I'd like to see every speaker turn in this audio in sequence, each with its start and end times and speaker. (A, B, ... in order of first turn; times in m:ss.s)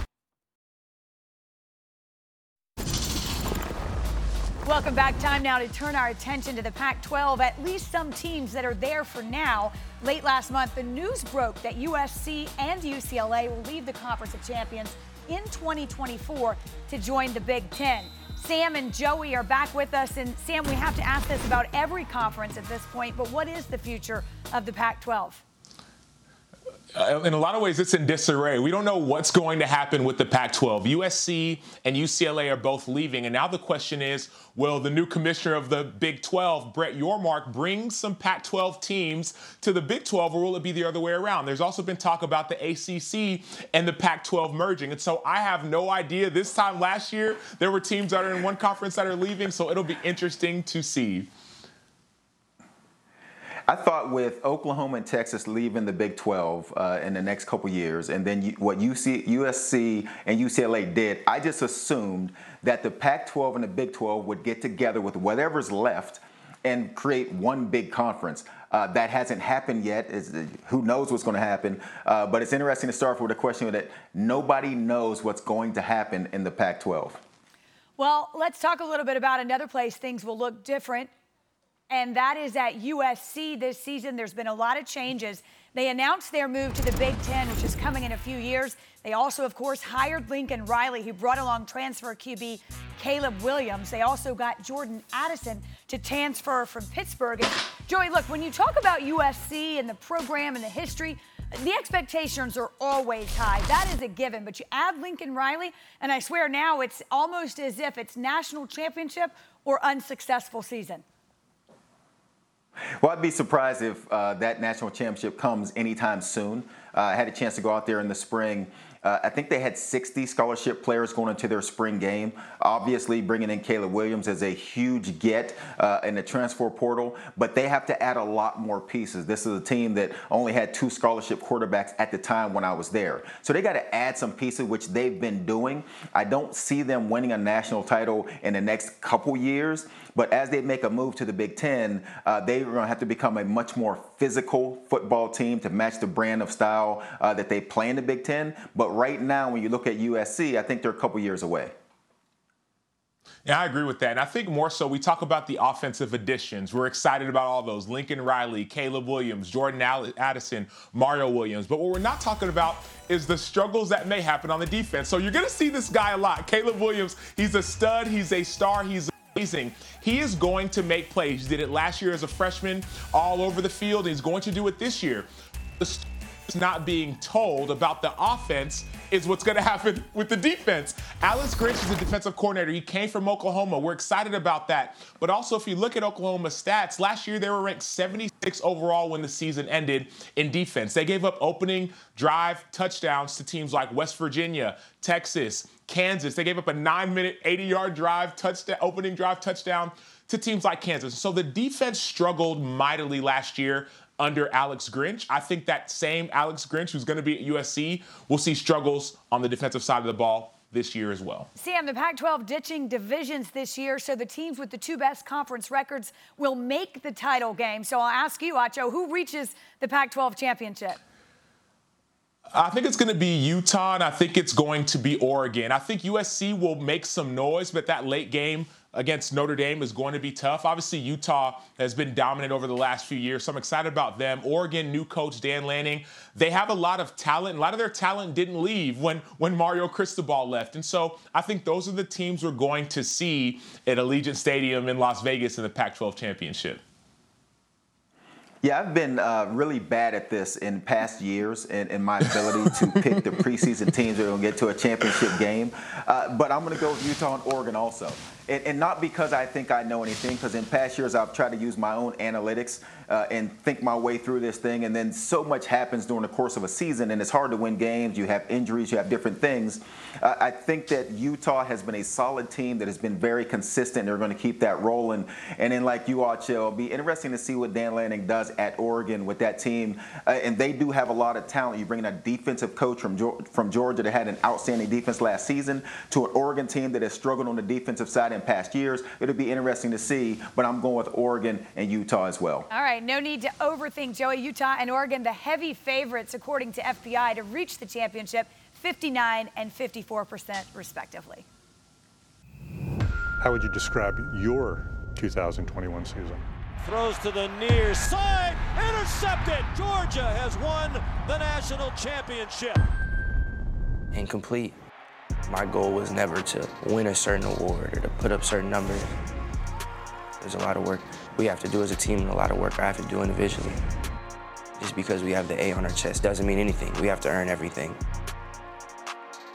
0:04.6-0:25.4 A
0:26.9-0:51.3 B
0:53.7-1:17.2 C
1:18.0-1:21.1 A
1:21.9-1:51.0 A
1:53.0-2:31.7 C
2:33.4-2:55.3 B
2:55.8-3:31.5 B
3:31.6-3:41.0 A
3:42.5-4:06.8 B
4:08.6-4:52.7 C
4:52.7-5:01.4 A
5:03.4-5:06.4 D
5:06.8-5:12.8 E
5:14.1-5:14.8 F
5:15.5-5:19.1 F
5:20.4-5:23.8 F
5:24.8-5:27.9 F